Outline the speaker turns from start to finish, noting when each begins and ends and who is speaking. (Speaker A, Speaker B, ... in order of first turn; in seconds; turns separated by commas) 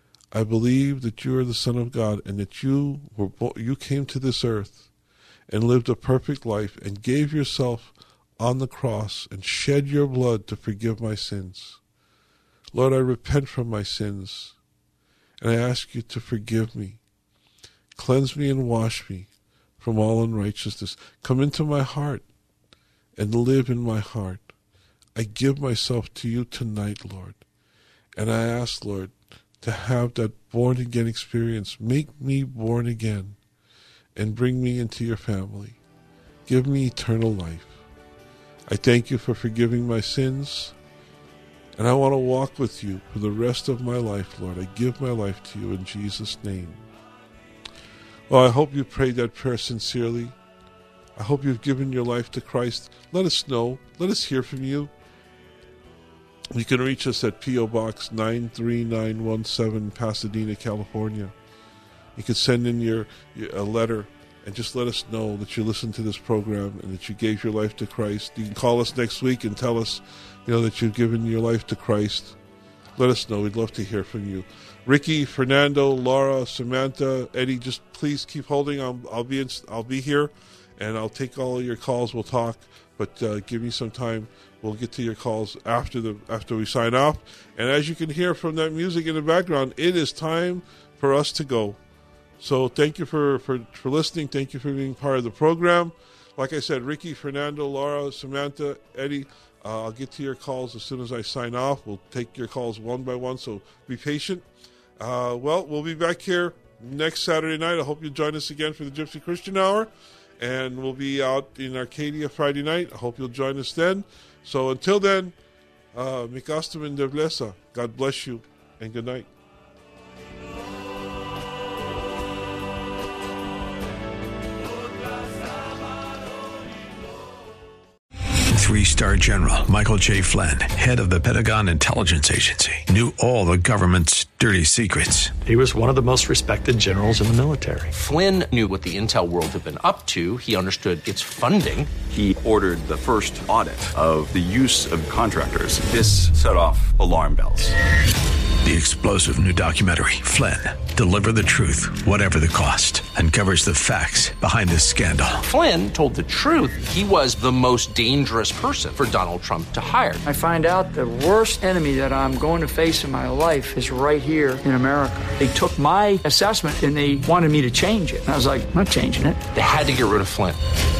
Speaker A: 0.3-4.9, Speaker A: 5.5-11.8, Speaker A: 12.7-14.6, Speaker A: 15.4-17.0, Speaker A: 17.9-22.2, Speaker A: 23.1-24.5, Speaker A: 25.1-27.4, Speaker A: 28.1-33.4, Speaker A: 34.1-35.8, Speaker A: 36.5-37.8, Speaker A: 38.7-40.7, Speaker A: 41.8-46.8, Speaker A: 48.3-50.4, Speaker A: 51.1-54.9, Speaker A: 56.5-61.3, Speaker A: 62.1-72.4, Speaker A: 73.0-91.8, Speaker A: 92.4-104.4, Speaker A: 105.0-115.4, Speaker A: 115.9-119.3, Speaker B: 128.5-135.4, Speaker C: 135.4-137.9, Speaker D: 137.9-141.9, Speaker E: 142.1-147.7, Speaker B: 148.6-155.4, Speaker D: 155.4-160.2, Speaker F: 160.2-169.4, Speaker D: 169.5-170.6